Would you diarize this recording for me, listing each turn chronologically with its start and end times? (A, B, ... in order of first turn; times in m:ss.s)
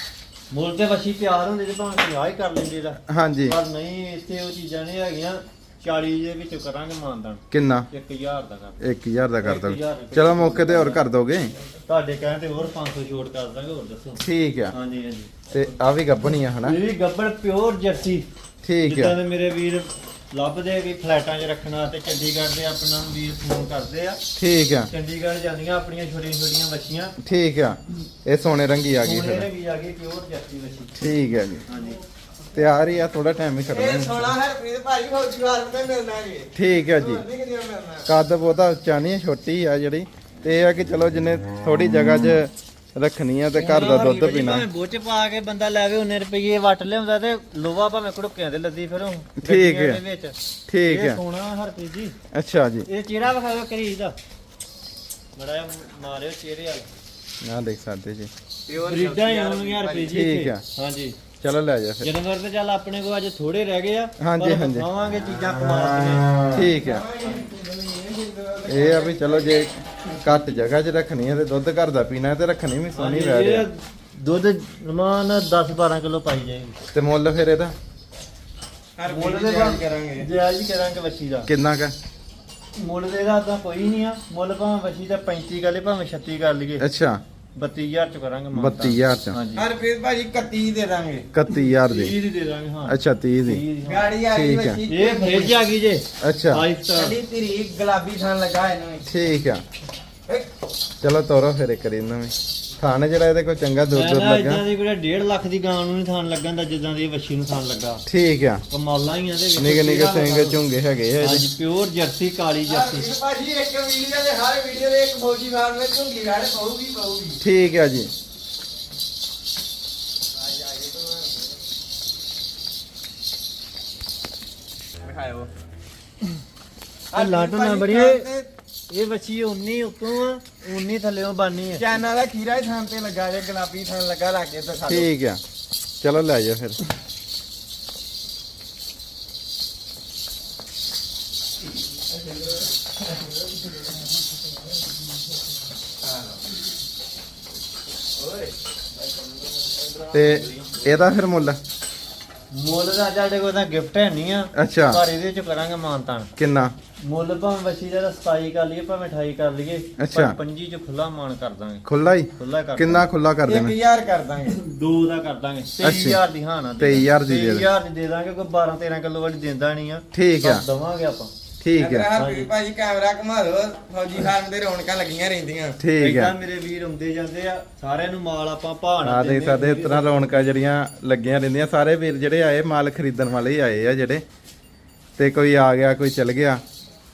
0:00.5-0:08.8 A
0:03.1-0:03.6 B
0:07.5-0:07.9 B
0:08.8-0:11.5 B
0:09.4-0:11.0 A
0:11.9-0:15.3 A
0:14.2-0:14.7 B
0:15.5-0:16.8 B
0:16.6-0:18.3 A
0:18.6-0:19.2 B
0:18.8-0:24.2 A
0:24.4-0:24.9 B
0:24.9-0:27.1 A
0:27.2-0:29.5 B
0:29.0-0:31.1 A
0:31.0-0:31.6 B
0:31.7-0:32.0 A
0:32.5-0:34.3 B
0:33.7-0:38.1 C
0:36.5-0:37.2 B
0:38.1-0:44.7 B
0:43.5-0:52.2 A
0:43.7-0:44.2 C
0:49.4-0:50.0 B
0:50.7-0:51.2 B
0:52.3-0:52.9 B
0:52.8-0:54.2 A
0:55.4-0:56.9 A
0:57.4-0:58.3 B
0:58.7-1:00.2 C
0:58.8-1:01.2 A
1:00.1-1:00.6 B
1:01.4-1:02.1 B
1:02.0-1:06.6 A
1:04.2-1:04.9 B
1:05.5-1:07.0 B
1:06.5-1:09.7 C
1:08.6-1:13.7 B
1:12.9-1:16.8 A
1:16.9-1:17.7 B
1:19.0-1:20.3 C
1:19.0-1:21.5 A
1:21.4-1:21.9 B
1:22.8-1:26.8 A
1:26.8-1:27.2 B
1:27.6-1:29.7 A
1:28.5-1:29.4 B
1:29.5-1:31.3 C
1:31.3-1:32.1 B
1:31.5-1:34.1 A
1:32.8-1:33.6 B
1:33.8-1:35.6 C
1:34.3-1:34.8 B
1:34.9-1:37.2 A
1:36.2-1:36.6 B
1:36.9-1:39.1 C
1:39.0-1:39.6 B
1:41.0-1:44.6 B
1:43.9-1:48.0 A
1:48.1-1:48.6 B
1:48.7-1:50.6 A
1:49.6-1:51.5 B
1:51.2-1:53.1 A
1:52.6-1:57.4 C
1:57.4-1:58.1 B
2:00.3-2:01.6 C
2:05.0-2:05.5 C
2:07.1-2:08.5 C
2:07.1-2:08.2 A
2:08.9-2:11.9 A
2:11.8-2:15.1 C
2:14.9-2:15.4 B
2:16.0-2:16.8 B
2:26.0-2:26.4 C
2:28.2-2:31.0 C
2:30.1-2:31.6 B
2:32.5-2:36.3 A
2:34.5-2:35.0 B
2:36.4-2:36.7 B
2:37.0-2:43.0 A
2:40.0-2:40.4 B
2:41.8-2:43.8 B
2:43.4-2:44.6 C
2:44.5-2:51.3 A
2:45.8-2:46.2 B
2:46.8-2:47.6 B
2:50.1-2:50.6 B
2:51.6-2:52.1 B
2:51.8-2:55.8 C
2:52.1-2:52.5 A
2:55.8-2:56.3 B
2:56.0-3:00.3 A
2:59.0-3:04.2 B
3:05.2-3:06.6 B